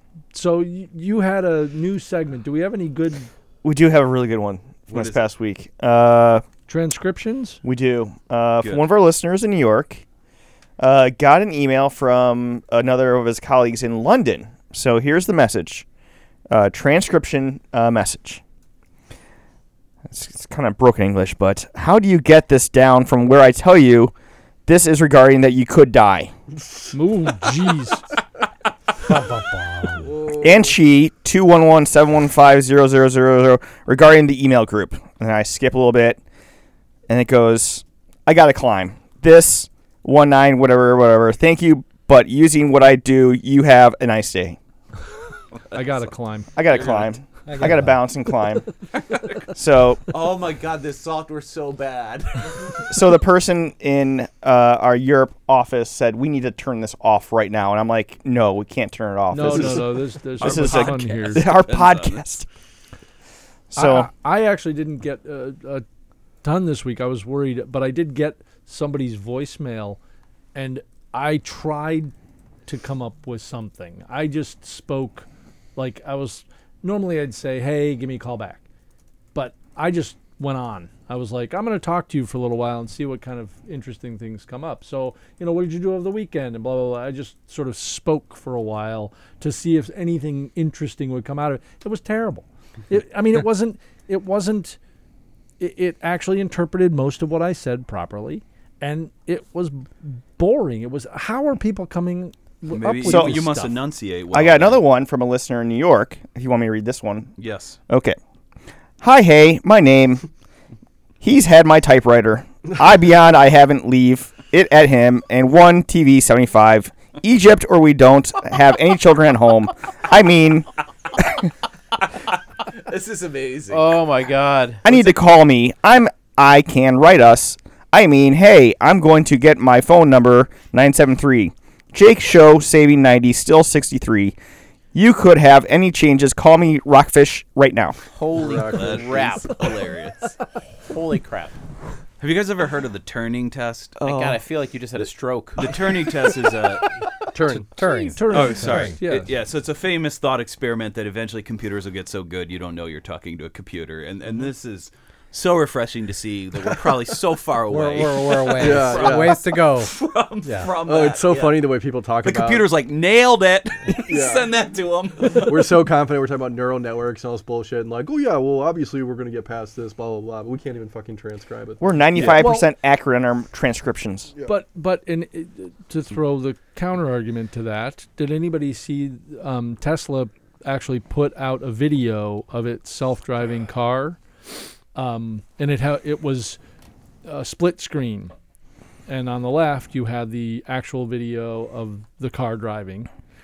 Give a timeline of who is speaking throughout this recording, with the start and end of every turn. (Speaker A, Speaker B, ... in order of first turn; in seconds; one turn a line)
Speaker A: 0.3-3.3
Speaker B: 3.6-6.4
Speaker C: 4.9-5.2
Speaker A: 6.7-7.6
Speaker B: 7.6-10.0
Speaker B: 10.8-15.8
Speaker B: 16.5-18.4
Speaker B: 20.1-24.1
Speaker B: 24.7-26.3
Speaker A: 26.9-28.0
Speaker D: 29.0-30.1
Speaker E: 30.0-30.7
Speaker B: 30.4-36.2
Speaker B: 37.1-44.6
Speaker C: 45.7-46.1
Speaker A: 45.7-46.5
Speaker B: 46.6-48.8
Speaker C: 46.7-47.1
Speaker D: 47.5-48.0
Speaker C: 48.9-49.5
Speaker B: 49.5-50.0
Speaker C: 50.1-52.9
Speaker B: 52.9-62.5
Speaker A: 59.3-61.5
Speaker C: 60.4-62.2
Speaker B: 63.7-64.1
Speaker A: 63.8-65.8
Speaker A: 66.4-70.0
Speaker A: 70.5-72.1
Speaker A: 72.7-78.6
Speaker A: 79.3-94.8
Speaker A: 95.6-103.7
Speaker C: 102.7-104.8
Speaker B: 103.0-103.5
Speaker B: 104.3-107.3
Speaker C: 107.4-107.8
Speaker B: 107.9-108.2
Speaker B: 109.0-110.3
Speaker B: 111.2-120.7
Speaker C: 122.2-124.0
Speaker F: 123.7-124.8
Speaker B: 124.8-134.4
Speaker B: 134.9-138.0
Speaker F: 138.1-139.7
Speaker E: 138.3-139.1
Speaker C: 138.7-140.4
Speaker F: 140.9-141.6
Speaker C: 142.2-144.0
Speaker B: 144.0-144.3
Speaker F: 144.0-146.1
Speaker C: 145.6-146.9
Speaker E: 147.3-147.7
Speaker D: 147.8-149.0
Speaker A: 148.0-149.3
Speaker C: 148.3-165.9
Speaker D: 157.7-159.9
Speaker E: 158.6-159.4
Speaker D: 160.4-160.7
Speaker E: 160.8-162.7
Speaker E: 163.9-164.5
Speaker E: 165.2-172.5
Speaker B: 171.8-174.3
Speaker A: 172.3-172.7
Speaker A: 174.4-184.2
Speaker A: 184.9-186.6
Speaker A: 187.2-188.3
Speaker A: 189.1-193.1